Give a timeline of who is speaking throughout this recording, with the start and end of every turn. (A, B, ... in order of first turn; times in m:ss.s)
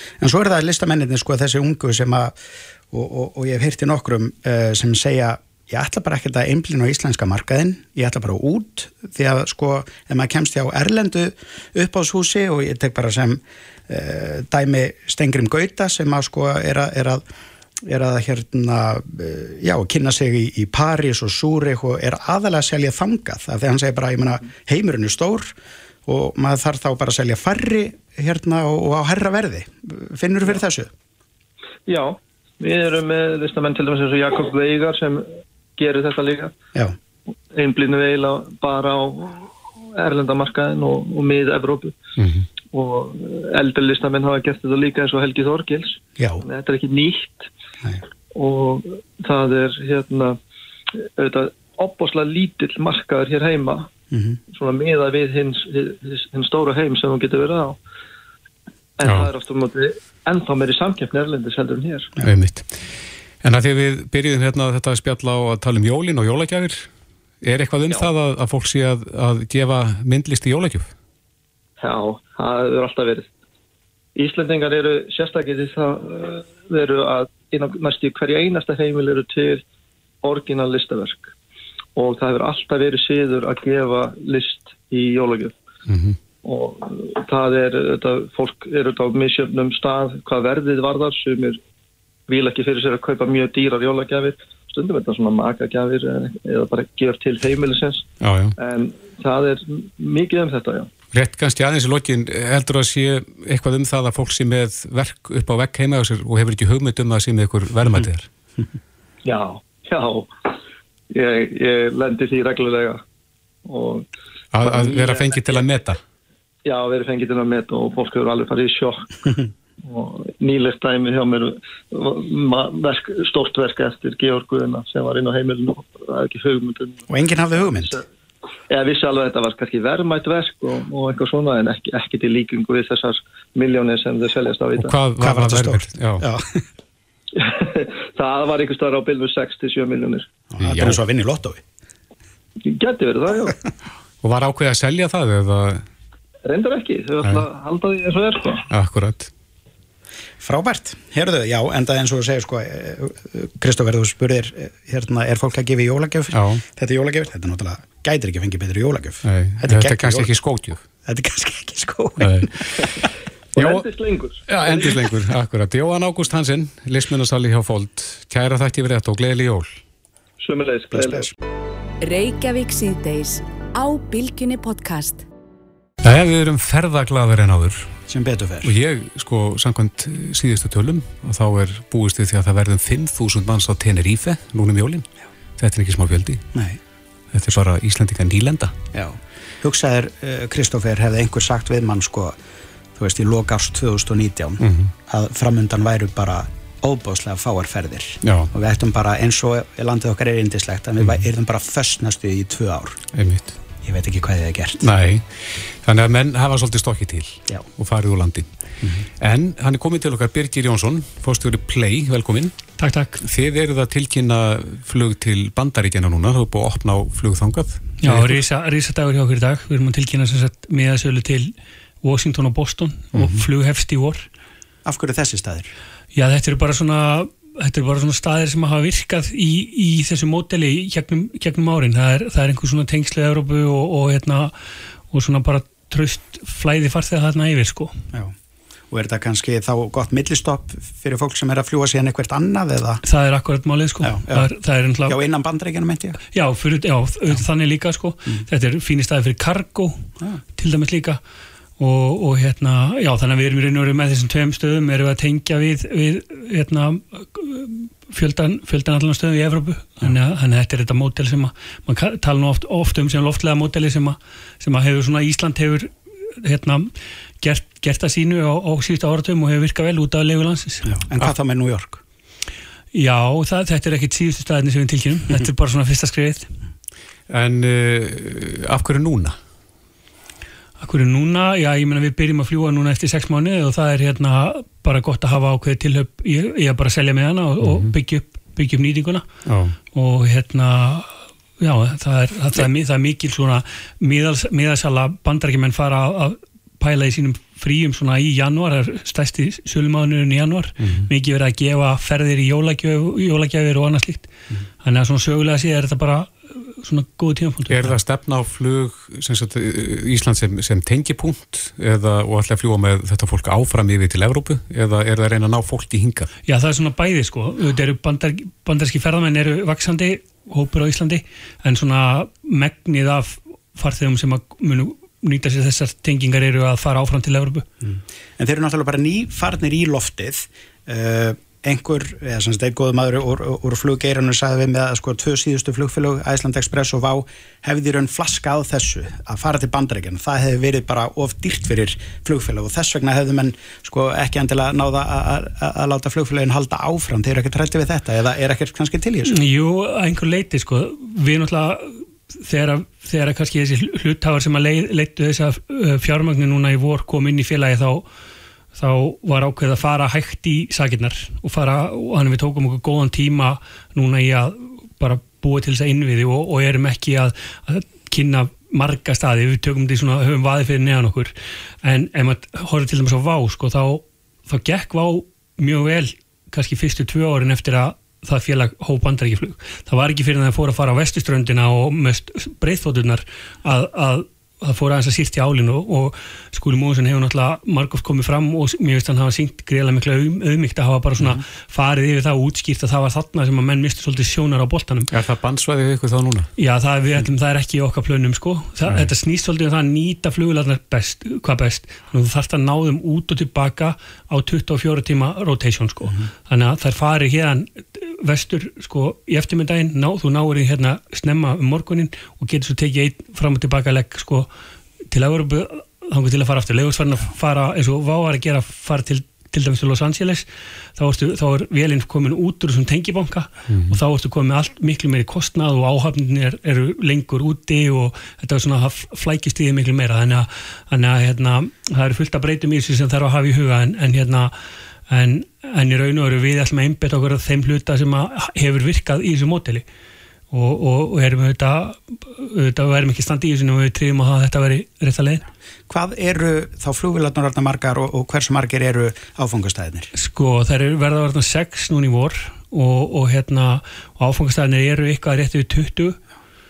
0:00.2-0:02.4 A
0:02.9-0:17.2 A
0:17.8-0:25.5 A
0:26.0-0:30.9 A
0:31.9-0:36.5 B
0:37.5-0:42.0 B
0:42.2-0:42.5 C
0:42.7-0:47.5 B
0:46.2-0:46.4 A
0:48.3-0:50.4 B
0:51.2-0:53.9 B
0:54.1-0:54.4 A
0:54.5-0:57.8 B
0:59.0-1:02.1 B
0:59.0-0:59.3 C
1:02.2-1:02.8 C
1:03.4-1:06.9 C
1:07.4-1:10.9 C
1:11.8-1:13.3 B
1:14.2-1:19.6 B
1:20.2-1:21.3 B
1:22.0-1:25.6 B
1:25.9-1:26.2 C
1:26.4-1:31.6 B
1:32.3-1:40.9 B
1:38.2-1:38.6 C
1:41.1-1:48.3 C
1:49.2-1:50.3 B
1:51.1-1:53.0 B
1:53.6-1:54.1 B
1:54.5-1:56.0 C
1:54.6-1:55.6 B
1:56.6-2:07.1 B
2:07.1-2:08.0 A
2:07.6-2:08.0 B
2:08.7-2:14.9 B
2:14.8-2:16.3 C
2:15.2-2:16.6 A
2:17.4-2:20.3 B
2:20.5-2:21.6 A
2:20.6-2:21.0 C
2:22.6-2:23.6 B
2:24.2-2:25.8 C
2:26.4-2:28.6 B
2:28.7-2:29.3 C
2:30.4-2:40.3 A
2:36.3-2:36.6 C
2:39.2-2:40.8 C
2:41.0-2:42.5 A
2:42.2-2:42.6 C
2:43.5-2:45.0 B
2:43.6-2:43.8 C
2:44.4-2:49.8 C
2:50.4-2:51.3 B
2:50.9-2:51.3 A
2:52.0-2:55.2 D
2:56.0-2:57.9 C
2:58.1-2:58.7 A
2:58.6-3:06.4 C
3:07.3-3:08.7 C
3:08.9-3:12.4 A
3:13.0-3:23.0 A
3:14.6-3:14.9 C
3:18.2-3:18.5 C
3:23.1-3:23.6 C
3:23.8-3:24.9 A
3:24.8-3:28.5 C
3:29.2-3:32.5 C
3:32.8-3:33.2 E
3:33.2-3:38.4 C
3:38.0-3:44.3 E
3:43.2-3:43.4 C
3:44.8-3:45.7 A
3:46.1-3:54.5 E
3:55.1-3:57.9 E
3:58.9-4:03.0 A
4:03.0-4:05.2 E
4:04.0-4:04.5 A
4:05.1-4:06.2 A
4:06.3-4:10.0 E
4:10.5-4:11.2 E
4:11.8-4:26.9 E
4:27.4-4:30.9 E
4:30.9-4:32.0 A
4:32.9-4:36.5 E
4:37.3-4:39.4 C
4:40.8-4:49.3 E
4:47.6-4:47.9 C
4:49.4-4:49.8 C
4:49.9-5:04.3 E
5:00.8-5:01.1 C
5:04.8-5:08.0 E
5:07.7-5:16.3 C
5:16.4-5:27.6 E
5:27.8-5:49.3 A
5:49.2-5:58.0 E
5:58.7-6:35.1 E
6:35.1-6:36.5 C
6:36.6-6:54.5 E
6:55.1-7:14.5 E
7:03.7-7:04.0 C
7:15.1-7:19.8 E
7:20.5-7:25.4 E
7:25.9-7:30.1 A
7:30.1-7:36.2 E